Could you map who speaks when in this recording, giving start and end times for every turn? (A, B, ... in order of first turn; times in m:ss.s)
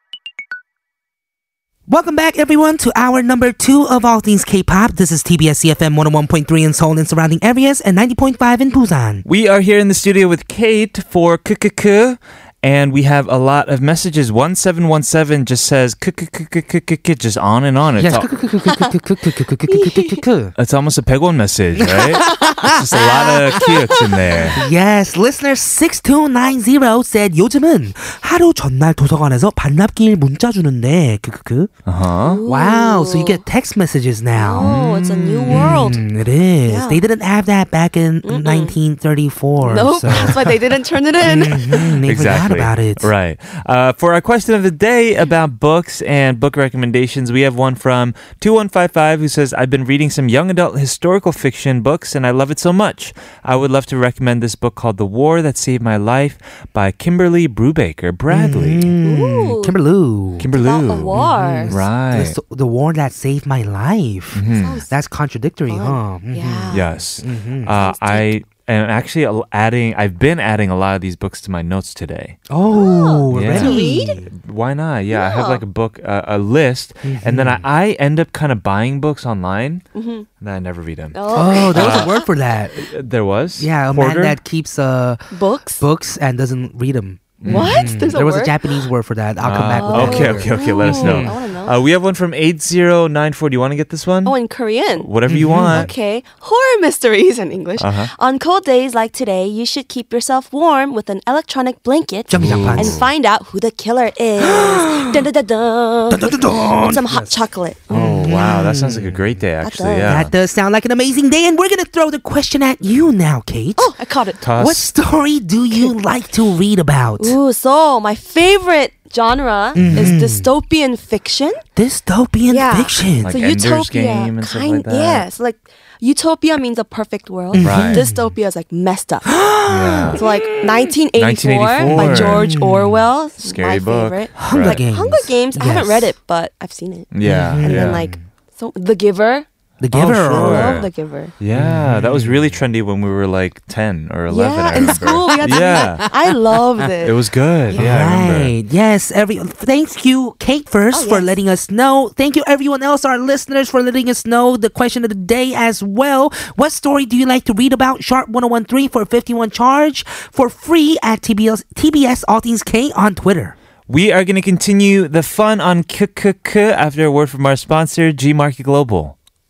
0:01.9-0:09.2 A
0:09.2-0:18.3 B
0:18.0-0:20.5 A
0:19.7-0:20.2 C
0:20.6-0:24.6 B
0:21.8-0:22.8 A
0:22.2-0:24.4 C
0:24.5-0:31.7 A
0:31.8-0:32.4 B
0:32.2-0:33.4 C
0:32.5-0:34.8 A
0:34.4-0:36.0 C
0:34.6-0:35.8 B
0:35.5-0:40.4 A
0:36.7-0:37.0 C
0:38.2-0:38.7 C
0:39.6-0:41.9 C
0:41.2-0:43.1 A
0:42.0-0:58.9 B
0:58.3-1:00.5 A
0:59.0-0:59.8 C
1:00.4-1:02.4 B
1:00.5-1:01.7 C
1:01.1-1:07.7 A
1:04.3-1:04.8 B
1:04.5-1:04.9 C
1:05.7-1:06.8 C
1:06.7-1:12.4 B
1:07.7-1:08.3 C
1:12.5-1:14.3 A
1:12.7-1:14.2 C
1:13.3-1:19.8 B
1:15.1-1:15.6 C
1:17.0-1:17.6 A
1:19.9-1:20.2 C
1:20.4-1:22.1 B
1:21.1-1:22.2 C
1:21.3-1:22.8 A
1:22.8-1:24.4 B
1:23.6-1:25.2 A
1:25.3-1:25.8 C
1:25.8-1:31.4 A
1:27.4-1:27.9 B
1:27.4-1:28.6 C
1:29.4-1:34.4 B
1:29.8-1:31.8 C
1:34.2-1:35.1 C
1:35.0-1:35.9 B
1:35.3-1:35.9 A
1:35.7-1:47.8 C
1:37.8-1:38.1 B
1:42.3-1:43.0 A
1:42.3-1:43.1 B
1:44.4-1:45.2 A
1:46.1-1:47.4 A
1:47.9-1:49.2 A
1:47.9-1:50.3 B
1:49.6-1:50.2 C
1:50.1-1:53.9 A
1:53.8-1:54.4 C
1:54.4-1:54.9 B
1:54.6-1:57.4 A
1:57.2-2:01.6 C
1:59.8-2:00.1 B
1:59.8-2:00.5 A
2:01.8-2:03.3 A
2:02.5-2:09.3 C
2:03.2-2:05.2 B
2:07.5-2:08.3 A
2:07.6-2:08.0 B
2:09.2-2:10.9 A
2:09.7-2:10.2 B
2:10.1-2:19.5 C
2:11.2-2:12.5 B
2:11.9-2:13.0 A
2:13.4-2:14.8 B
2:14.4-2:16.1 A
2:17.1-2:18.0 B
2:17.2-2:18.2 A
2:19.8-2:20.8 A
2:19.9-2:20.9 B
2:20.3-2:21.3 C
2:21.4-2:26.1 B
2:21.5-2:22.5 A
2:24.3-2:27.2 C
2:24.8-2:26.0 A
2:27.0-2:28.5 B
2:27.7-2:43.5 A
2:30.9-2:31.3 C
2:43.9-2:49.1 B